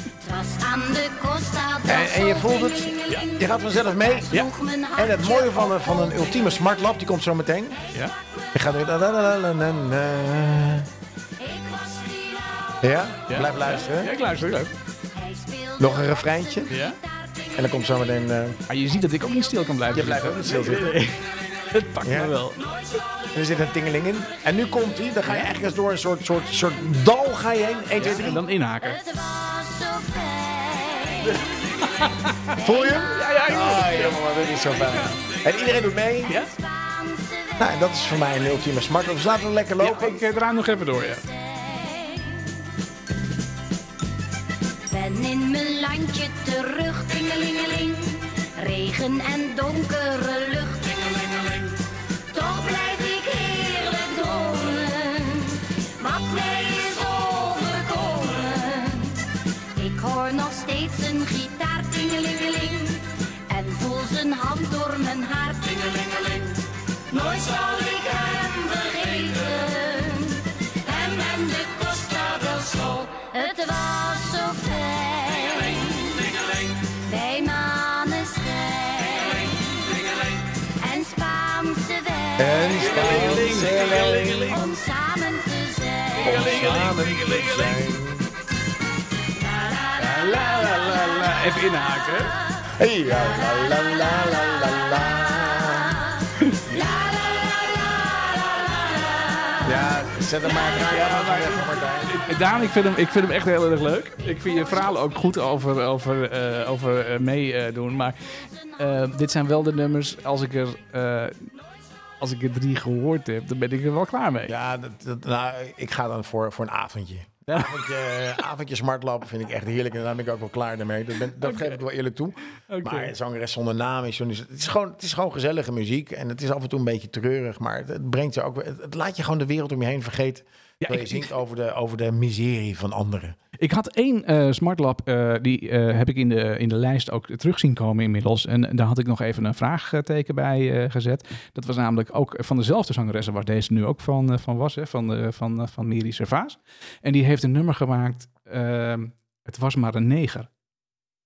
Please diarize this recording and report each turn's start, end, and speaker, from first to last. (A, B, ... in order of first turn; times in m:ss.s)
0:00.2-0:06.5 A
0:01.9-0:04.4 B
0:05.0-0:07.8 B
0:08.5-0:10.9 B
0:11.4-0:12.8 A
0:12.8-0:14.1 B
0:13.3-0:14.7 C
0:15.1-0:17.6 A
0:15.8-0:16.7 B
0:16.7-0:17.0 C
0:17.6-0:18.6 B
0:18.7-0:22.6 C
0:19.9-0:21.0 B
0:22.0-0:22.3 B
0:23.3-0:28.4 B
0:25.2-0:25.5 C
0:28.0-0:29.0 C
0:28.8-0:31.8 A
0:31.2-0:34.2 C
0:32.5-0:33.1 A
0:32.6-0:36.3 B
0:34.9-0:35.2 C
0:36.2-0:37.9 A
0:36.3-0:36.5 C
0:37.6-0:40.2 B
0:39.8-0:41.2 C
0:41.0-0:42.6 A
0:44.9-0:51.8 A
0:52.3-1:23.5 A
1:22.4-1:24.5 B
1:22.7-1:24.6 C
1:24.4-1:26.5 A
1:26.2-1:27.8 C
1:26.2-1:28.3 B
1:29.4-1:30.4 A
1:30.0-1:32.3 C
1:32.8-1:36.0 B
1:33.2-1:35.8 A
1:36.4-1:36.7 C
1:36.7-1:39.8 A
1:39.6-1:42.2 B
1:40.6-1:48.2 C
1:48.8-1:51.5 C
1:52.2-1:54.5 C
1:54.5-2:13.4 B
1:57.5-1:57.8 C
2:01.4-2:01.8 C
2:02.7-2:03.1 C
2:10.8-2:11.3 C
2:13.6-2:30.5 C